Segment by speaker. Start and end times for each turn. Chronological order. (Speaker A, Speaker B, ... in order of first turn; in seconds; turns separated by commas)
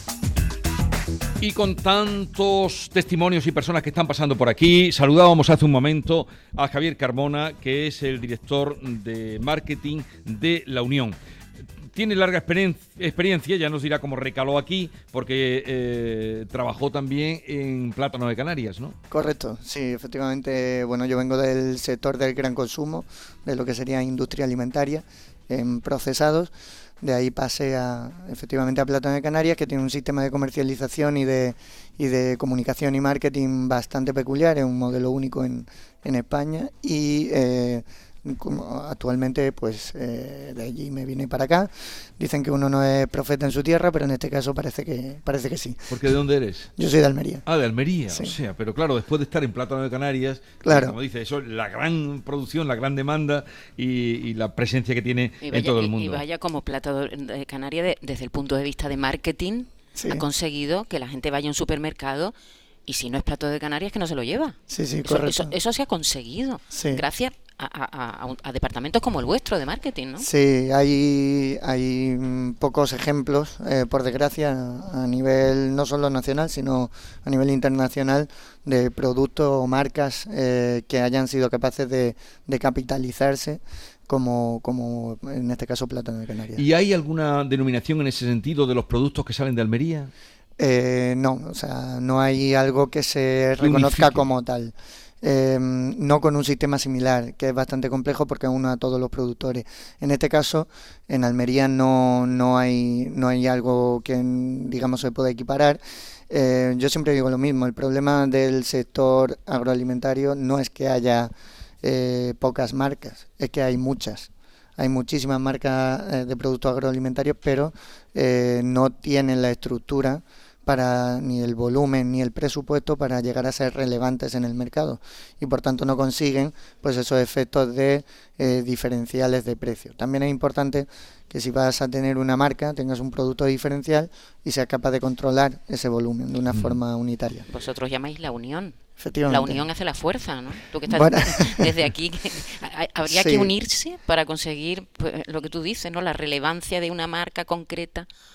Speaker A: 1.4-11.2, Speaker A: 11.9-18.9, Speaker B: 19.1-45.9, Speaker A: 45.9-46.7, Speaker B: 46.8-47.5, Speaker A: 47.5-56.2, Speaker B: 48.1-48.4, Speaker B: 50.6-51.0, Speaker C: 55.4-62.3, Speaker B: 60.0-60.2, Speaker C: 62.9-70.3, Speaker B: 64.7-65.5, Speaker B: 66.7-67.0, Speaker B: 70.2-86.7, Speaker A: 86.6-90.1, Speaker B: 90.6-111.3, Speaker A: 93.6-94.2, Speaker B: 111.8-137.5, Speaker C: 137.5-148.1, Speaker B: 139.0-139.6, Speaker B: 140.9-141.7, Speaker B: 143.1-143.5